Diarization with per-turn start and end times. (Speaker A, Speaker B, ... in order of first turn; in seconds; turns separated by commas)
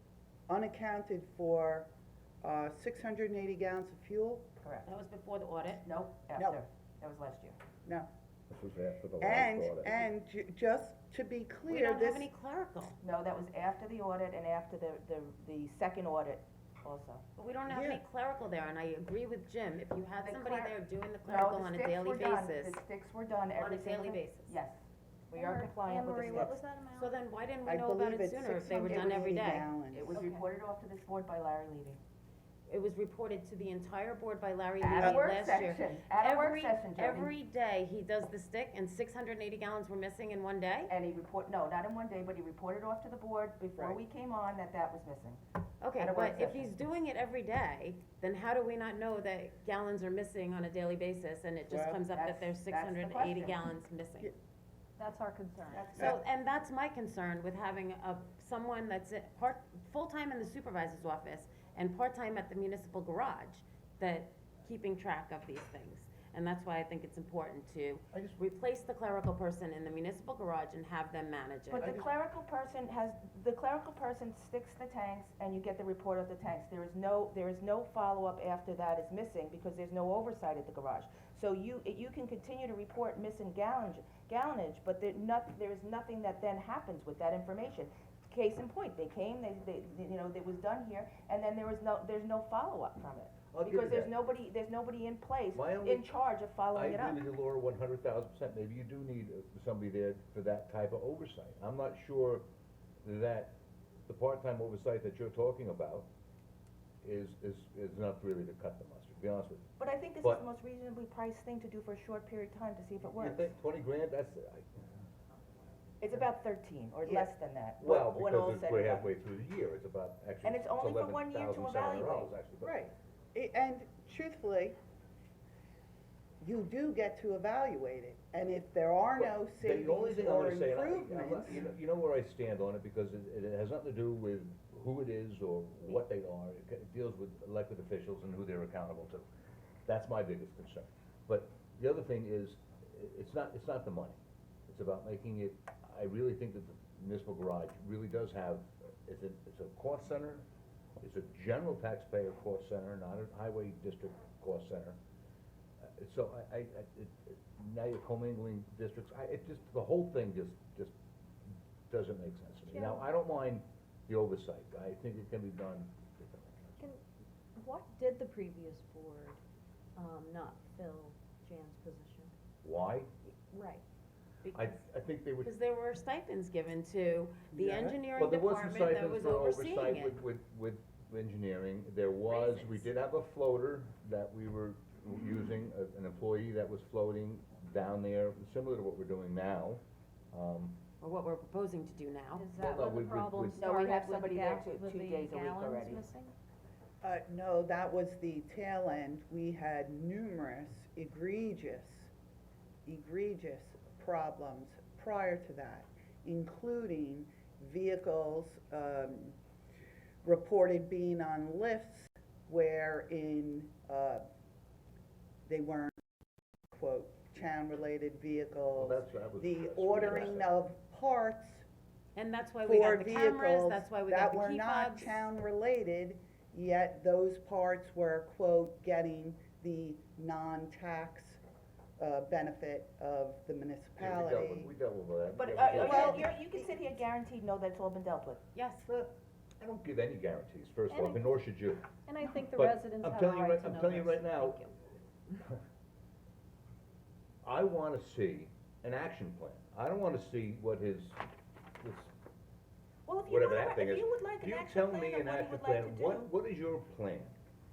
Speaker A: 0.5-1.9, Speaker A: 2.4-4.5, Speaker B: 4.6-4.9, Speaker C: 4.8-5.9, Speaker B: 5.8-7.6, Speaker A: 6.3-6.6, Speaker A: 7.8-8.1, Speaker D: 8.5-9.9, Speaker A: 9.2-12.3, Speaker C: 11.7-13.0, Speaker B: 13.0-17.2, Speaker C: 17.4-22.8, Speaker A: 17.7-18.0, Speaker B: 20.2-24.8, Speaker C: 23.6-24.6, Speaker B: 25.3-26.6, Speaker E: 25.3-27.1, Speaker C: 26.9-29.7, Speaker A: 27.7-30.2, Speaker B: 28.8-29.2, Speaker B: 29.9-32.0, Speaker E: 30.1-30.4, Speaker C: 32.7-40.9, Speaker B: 34.8-37.3, Speaker B: 40.9-45.4, Speaker C: 45.8-54.3, Speaker B: 46.0-46.7, Speaker A: 51.7-52.0, Speaker B: 52.1-53.6, Speaker E: 55.0-56.0, Speaker A: 55.7-56.2, Speaker C: 56.0-71.9, Speaker D: 68.1-68.4, Speaker B: 71.7-97.2, Speaker D: 71.8-72.1, Speaker D: 93.5-94.2, Speaker D: 95.5-96.1, Speaker D: 96.7-102.5, Speaker D: 103.0-106.1, Speaker D: 107.0-109.7, Speaker B: 109.8-113.5, Speaker D: 113.0-115.0, Speaker B: 116.0-119.1, Speaker A: 117.0-117.3, Speaker D: 117.8-122.8, Speaker B: 120.4-122.3, Speaker A: 122.6-124.8, Speaker A: 126.4-131.7, Speaker D: 129.2-139.3, Speaker D: 139.9-150.5, Speaker D: 151.0-155.0, Speaker D: 156.0-160.9, Speaker D: 161.9-166.8, Speaker E: 162.7-163.0, Speaker E: 167.6-169.4, Speaker E: 170.0-172.3, Speaker D: 172.6-173.1, Speaker E: 173.5-173.8, Speaker C: 174.4-174.8, Speaker D: 174.5-175.5, Speaker C: 175.4-180.2, Speaker A: 177.5-178.0, Speaker D: 178.1-190.8, Speaker C: 182.3-182.9, Speaker C: 191.0-192.5, Speaker E: 192.3-196.3, Speaker D: 192.6-193.7, Speaker B: 193.6-196.0, Speaker A: 197.0-202.1, Speaker A: 202.8-209.4, Speaker A: 210.2-214.2, Speaker A: 215.5-216.0, Speaker A: 216.7-221.7, Speaker D: 218.8-220.5, Speaker C: 222.2-225.2, Speaker A: 222.6-231.4, Speaker A: 232.0-234.7, Speaker D: 234.0-236.3, Speaker B: 235.3-238.4, Speaker A: 235.7-236.6, Speaker C: 238.5-238.9, Speaker D: 238.8-241.9, Speaker E: 240.9-241.4, Speaker E: 242.1-244.7, Speaker D: 242.5-244.7, Speaker D: 247.4-251.2, Speaker D: 251.8-252.1, Speaker B: 253.1-256.3, Speaker D: 253.2-257.4